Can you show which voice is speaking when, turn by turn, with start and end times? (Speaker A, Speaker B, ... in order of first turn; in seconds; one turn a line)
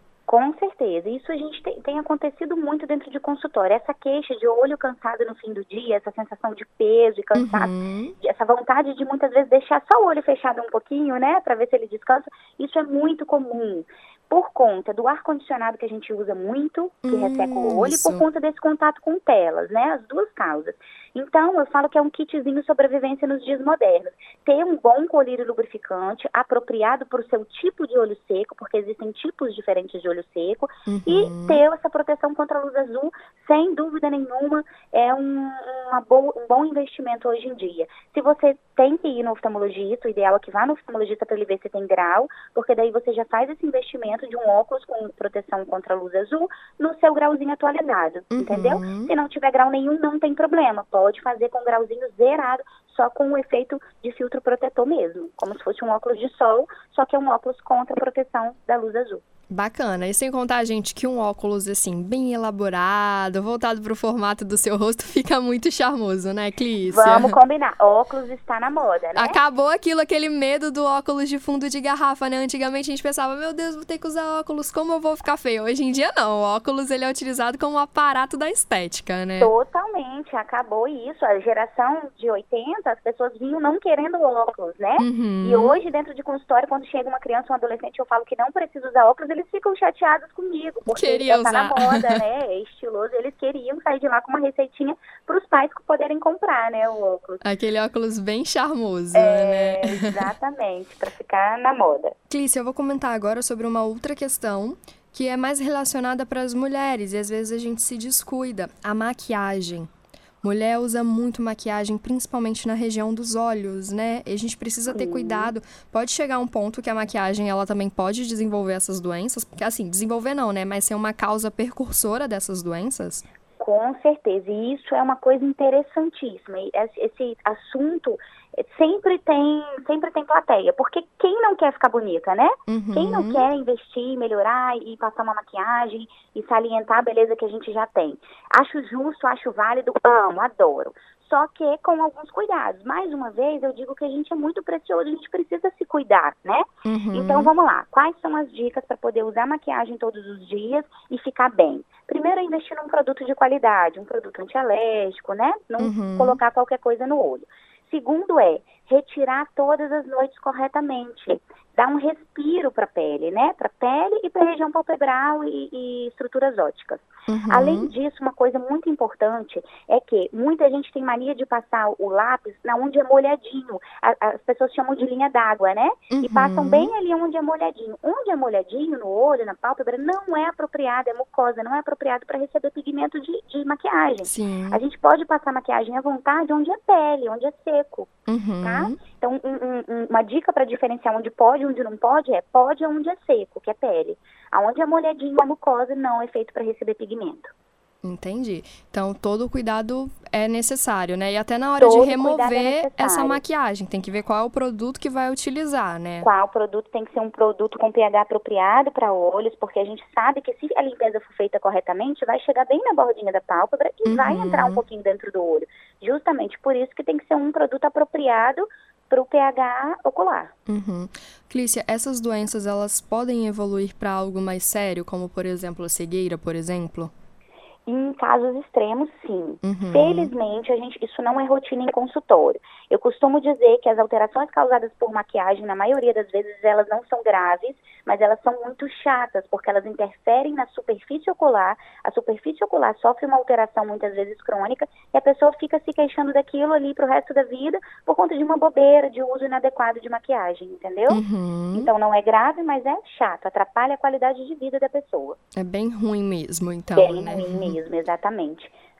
Speaker A: 0.3-59.2
Speaker B: 7.3-8.1
Speaker B: 17.0-18.2
Speaker B: 30.9-31.6
Speaker B: 48.3-49.1
Speaker B: 59.5-67.4
Speaker A: 66.8-69.4
Speaker B: 69.1-79.5
Speaker A: 79.4-97.4
Speaker B: 85.0-85.8
Speaker B: 90.9-92.2
Speaker B: 97.4-100.3
Speaker A: 99.1-102.1
Speaker B: 102.3-109.9
Speaker B: 110.4-123.2
Speaker A: 114.9-115.5
Speaker A: 123.6-188.1
Speaker B: 132.7-133.5
Speaker B: 146.8-147.5
Speaker B: 155.8-156.4
Speaker B: 167.3-167.9
Speaker B: 176.1-176.9
Speaker B: 184.2-184.8
Speaker B: 188.3-189.0
Speaker A: 188.6-197.5
Speaker B: 198.0-206.3
Speaker A: 201.8-203.4
Speaker A: 206.2-220.5
Speaker B: 214.0-214.8
Speaker B: 220.7-227.1
Speaker A: 227.8-251.2
Speaker B: 229.6-230.3
Speaker B: 251.1-251.9
Speaker A: 251.7-255.4
Speaker B: 255.6-257.8
Speaker A: 256.9-258.7